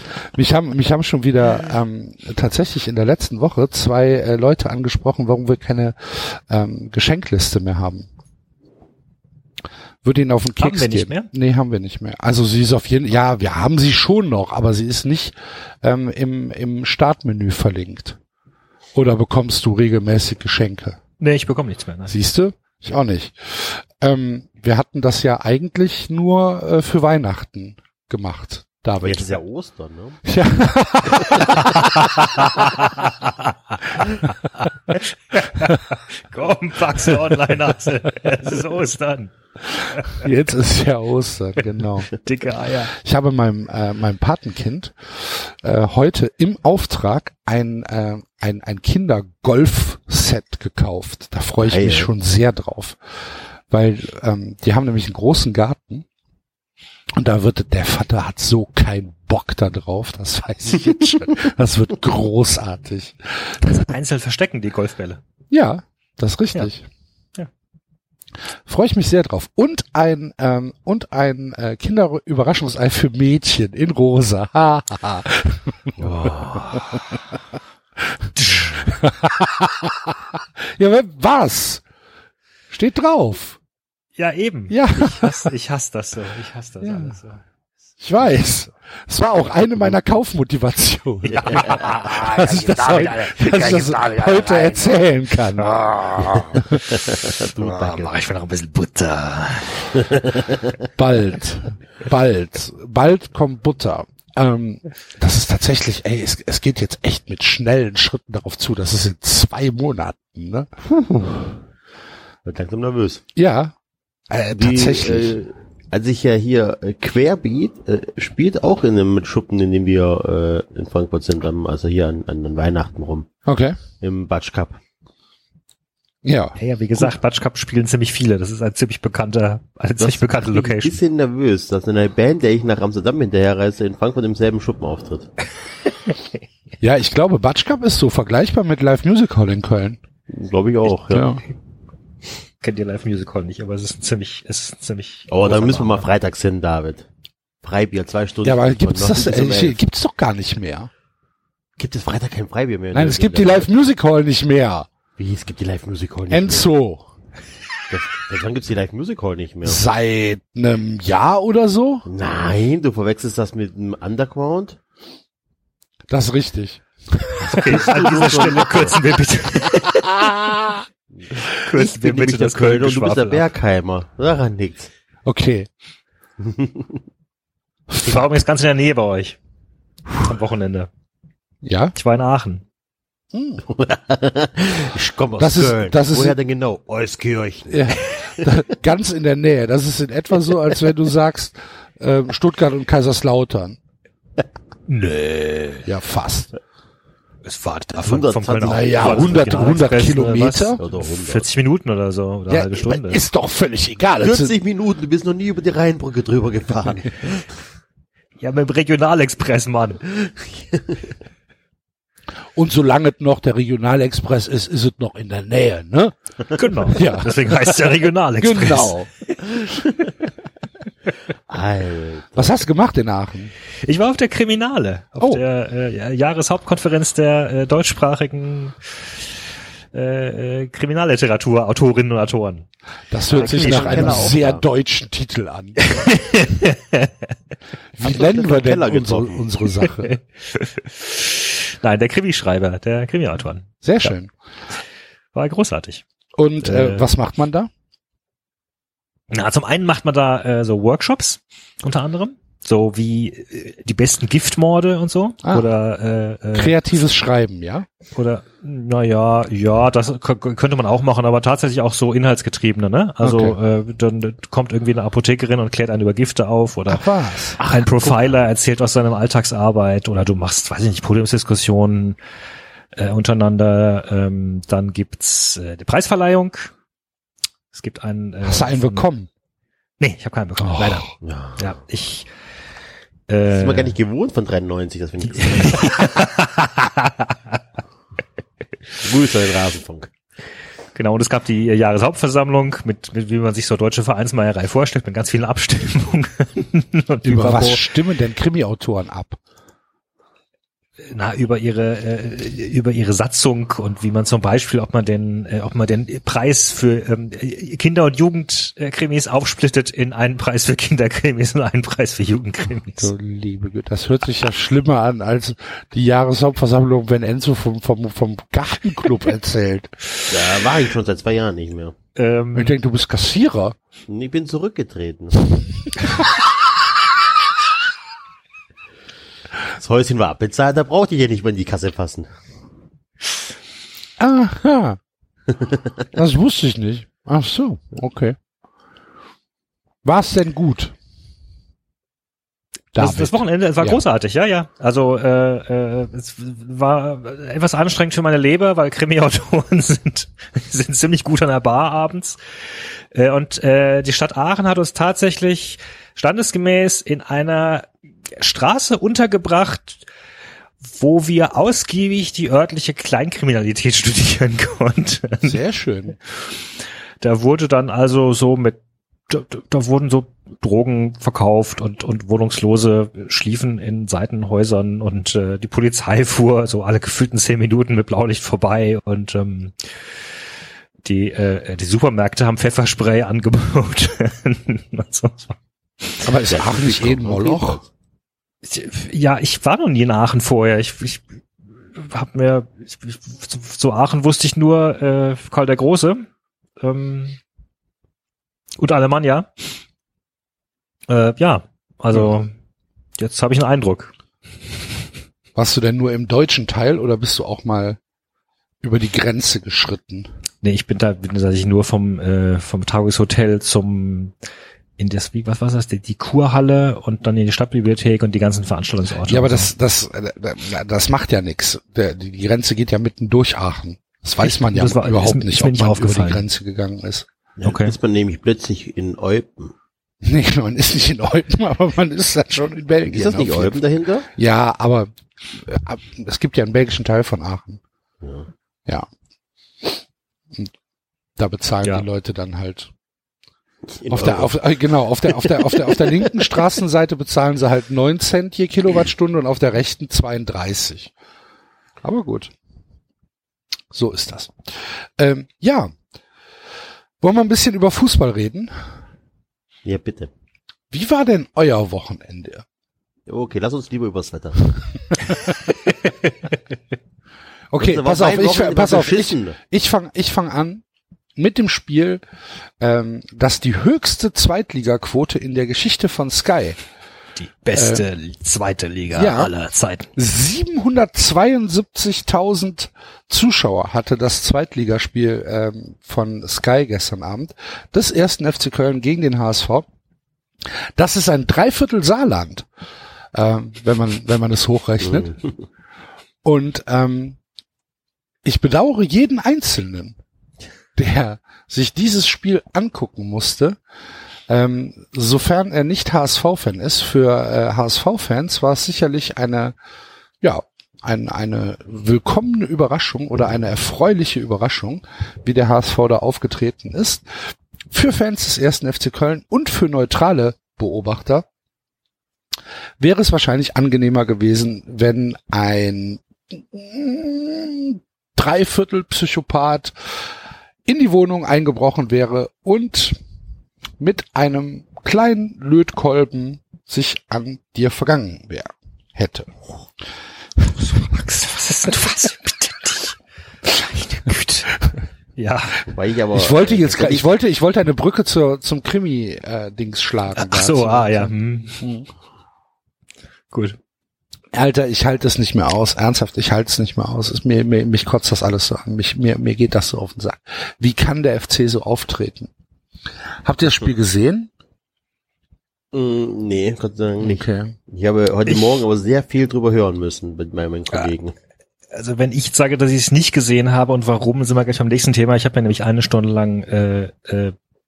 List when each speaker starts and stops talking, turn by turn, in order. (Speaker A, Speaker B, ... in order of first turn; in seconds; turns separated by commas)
Speaker A: 0.2-8.1, Speaker A: 10.0-18.2, Speaker B: 10.6-11.3, Speaker A: 18.9-21.0, Speaker B: 21.2-22.1, Speaker A: 22.1-29.3, Speaker C: 29.0-30.2, Speaker A: 30.2-32.7, Speaker B: 32.8-33.5, Speaker B: 34.9-39.3, Speaker A: 40.1-42.1, Speaker B: 42.2-42.9, Speaker A: 42.9-53.0, Speaker C: 51.6-52.1, Speaker A: 53.7-56.1, Speaker A: 57.2-63.9, Speaker B: 63.7-65.2, Speaker A: 65.5-66.9, Speaker A: 68.7-76.3, Speaker C: 76.0-76.8, Speaker A: 78.0-81.8, Speaker B: 78.4-78.9, Speaker A: 82.7-83.6, Speaker B: 84.2-87.4, Speaker A: 84.7-85.5, Speaker A: 86.8-87.2, Speaker A: 88.0-95.7, Speaker B: 91.2-95.0, Speaker B: 95.6-100.0, Speaker A: 96.5-96.8, Speaker C: 96.9-98.1, Speaker C: 100.0-100.7, Speaker A: 101.0-111.6, Speaker C: 112.5-113.2, Speaker A: 113.4-113.7, Speaker A: 114.3-115.4, Speaker C: 114.5-123.3, Speaker A: 123.5-123.8, Speaker C: 124.0-124.8, Speaker A: 126.2-127.2, Speaker B: 126.6-131.0, Speaker C: 130.0-135.3, Speaker A: 136.8-140.0, Speaker C: 140.3-141.3, Speaker A: 141.1-141.4, Speaker B: 142.6-146.1, Speaker C: 145.3-147.1, Speaker C: 147.6-149.8, Speaker A: 148.4-150.9, Speaker C: 151.8-153.7, Speaker A: 152.9-154.9, Speaker C: 155.2-156.7, Speaker A: 156.3-157.1, Speaker C: 157.9-159.8, Speaker A: 159.6-162.1, Speaker C: 162.1-164.8, Speaker A: 166.1-167.8, Speaker C: 167.4-169.0, Speaker B: 167.5-169.9, Speaker A: 169.8-170.8, Speaker C: 171.2-174.9, Speaker B: 171.6-173.5, Speaker A: 175.2-175.7, Speaker C: 176.4-176.9, Speaker A: 177.9-178.3, Speaker B: 178.0-179.4, Speaker B: 180.2-180.9, Speaker A: 181.6-181.9, Speaker B: 181.9-182.6, Speaker A: 183.3-183.7, Speaker C: 183.7-188.5, Speaker A: 185.4-186.4, Speaker A: 187.7-193.8, Speaker B: 194.9-195.9, Speaker A: 195.8-196.5, Speaker B: 197.4-203.2, Speaker C: 197.9-199.8, Speaker A: 198.6-200.8, Speaker C: 200.8-201.4, Speaker A: 202.5-204.5, Speaker C: 204.2-207.6, Speaker B: 208.4-210.0, Speaker C: 210.2-211.0, Speaker A: 212.6-216.1, Speaker B: 216.5-219.0, Speaker A: 216.7-219.1, Speaker C: 221.5-222.6, Speaker A: 222.4-223.5, Speaker B: 223.8-232.7, Speaker A: 233.1-236.0, Speaker B: 233.3-234.3, Speaker C: 233.3-234.6, Speaker B: 235.9-237.3, Speaker A: 238.0-240.2, Speaker C: 238.0-239.5, Speaker B: 240.1-244.1, Speaker A: 243.8-244.3, Speaker B: 245.3-246.0, Speaker A: 246.4-247.7, Speaker B: 246.6-247.1, Speaker B: 249.3-256.8, Speaker A: 256.5-257.9, Speaker B: 258.1-272.2, Speaker A: 263.2-263.6, Speaker A: 266.9-267.6, Speaker C: 267.6-268.4, Speaker B: 272.9-276.7, Speaker B: 277.7-279.1, Speaker A: 278.4-279.3, Speaker B: 280.0-282.3, Speaker A: 280.7-281.1, Speaker C: 281.2-281.7, Speaker B: 283.3-283.9, Speaker C: 283.5-286.0, Speaker B: 285.4-287.6, Speaker C: 289.0-290.1, Speaker B: 290.9-297.9, Speaker A: 297.2-299.4, Speaker B: 301.0-313.1, Speaker A: 313.0-319.9, Speaker C: 320.3-321.9, Speaker B: 322.1-322.8, Speaker A: 322.6-323.8, Speaker C: 324.1-325.5, Speaker C: 329.8-332.3, Speaker A: 334.2-335.0, Speaker A: 336.1-338.4, Speaker A: 340.0-340.9, Speaker A: 342.9-344.0, Speaker B: 343.0-352.4, Speaker B: 353.1-360.1, Speaker B: 360.8-365.6, Speaker A: 365.4-366.2, Speaker B: 367.2-379.8, Speaker B: 381.0-386.2, Speaker A: 386.2-387.8, Speaker C: 386.5-387.9, Speaker B: 388.6-391.4, Speaker B: 391.9-396.3, Speaker B: 396.8-397.4, Speaker B: 398.8-399.5, Speaker B: 401.1-402.5, Speaker B: 403.2-404.1, Speaker A: 405.6-408.0, Speaker A: 408.8-410.3, Speaker B: 410.6-414.4, Speaker B: 415.0-419.7, Speaker A: 419.3-427.3, Speaker B: 424.4-426.4, Speaker C: 427.6-429.7, Speaker B: 427.6-427.9, Speaker A: 430.2-433.8, Speaker C: 433.1-434.3, Speaker A: 434.4-437.8, Speaker C: 438.2-438.5, Speaker A: 441.4-442.9, Speaker C: 443.9-444.6, Speaker A: 444.1-451.1, Speaker C: 445.3-446.3, Speaker A: 452.0-452.5, Speaker A: 453.9-455.9, Speaker A: 457.2-458.7, Speaker C: 459.9-460.3, Speaker A: 460.9-462.6, Speaker C: 463.3-464.8, Speaker A: 467.7-470.8, Speaker C: 467.8-469.6, Speaker A: 471.4-472.2, Speaker A: 472.8-476.8, Speaker B: 477.4-480.1, Speaker A: 477.8-478.0, Speaker A: 479.1-479.5, Speaker A: 480.1-489.9, Speaker A: 491.0-492.7, Speaker A: 493.3-495.4, Speaker C: 495.1-495.4, Speaker A: 496.4-497.4, Speaker A: 498.4-500.2, Speaker A: 501.0-503.8, Speaker A: 504.5-509.8, Speaker A: 510.4-521.5, Speaker A: 523.0-530.3, Speaker A: 530.9-533.2, Speaker A: 534.0-539.6, Speaker A: 540.6-540.9, Speaker B: 541.0-544.7, Speaker B: 545.4-545.8, Speaker C: 545.9-547.3, Speaker A: 546.3-552.1, Speaker B: 550.4-551.8, Speaker B: 553.5-553.8, Speaker A: 554.5-562.5, Speaker A: 563.4-564.5, Speaker C: 565.9-571.3, Speaker A: 567.2-567.8, Speaker B: 568.5-568.7, Speaker B: 571.9-577.5